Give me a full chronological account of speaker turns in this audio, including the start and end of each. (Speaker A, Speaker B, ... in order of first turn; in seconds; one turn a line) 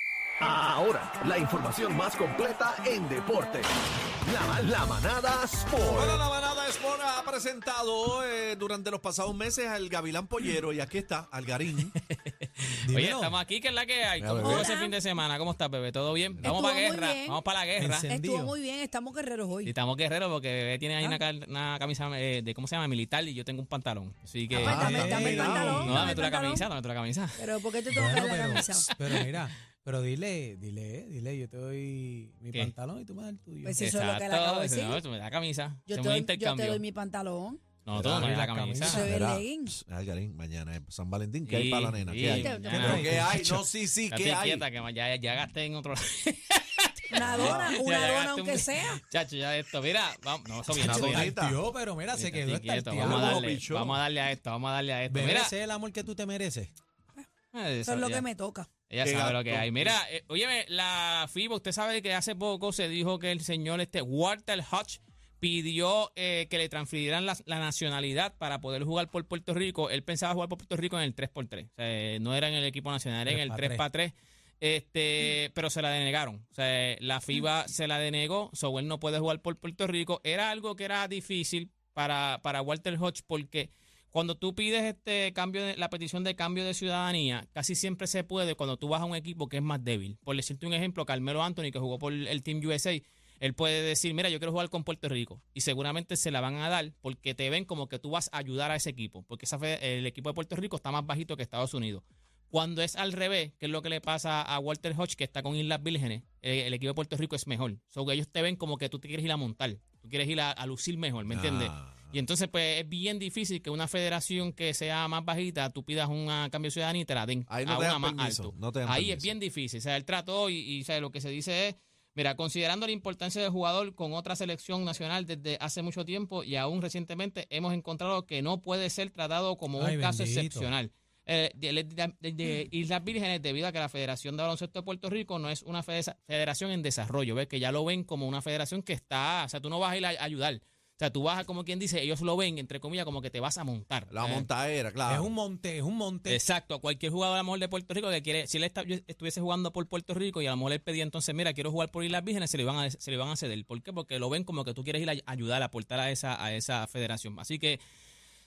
Speaker A: 0.4-6.2
Speaker B: 5.8-11.9
Speaker C: 11.8-18.1
Speaker D: 12.8-13.3
Speaker B: 14.2-14.7
Speaker E: 14.4-15.0
Speaker E: 16.4-17.4
Speaker D: 17.8-18.5
Speaker E: 18.1-19.7
Speaker C: 19.6-27.5
Speaker D: 24.5-26.1
Speaker E: 24.6-26.7
Speaker B: 24.9-26.1
Speaker E: 27.4-28.9
Speaker D: 27.9-33.8
Speaker C: 28.8-29.4
Speaker E: 33.6-35.0
Speaker C: 33.8-36.8
Speaker E: 35.9-37.6
Speaker C: 37.9-39.0
Speaker B: 37.9-38.4
Speaker D: 38.2-39.2
Speaker E: 38.8-39.8
Speaker B: 38.9-44.6
Speaker C: 41.5-43.3
Speaker E: 42.3-43.2
Speaker D: 42.7-43.6
Speaker C: 44.1-51.3
Speaker E: 47.1-49.0
Speaker B: 47.2-47.8
Speaker D: 50.7-53.4
Speaker B: 50.7-51.6
Speaker C: 52.1-55.5
Speaker B: 53.0-54.0
Speaker D: 55.1-56.7
Speaker C: 57.5-58.2
Speaker E: 57.9-58.7
Speaker C: 58.9-144.5
Speaker B: 59.0-60.0
Speaker D: 73.3-73.8
Speaker B: 111.3-112.2
Speaker B: 117.5-119.3
Speaker D: 129.8-130.7
Speaker B: 144.1-145.3
Speaker D: 145.1-146.4
Speaker C: 146.2-157.8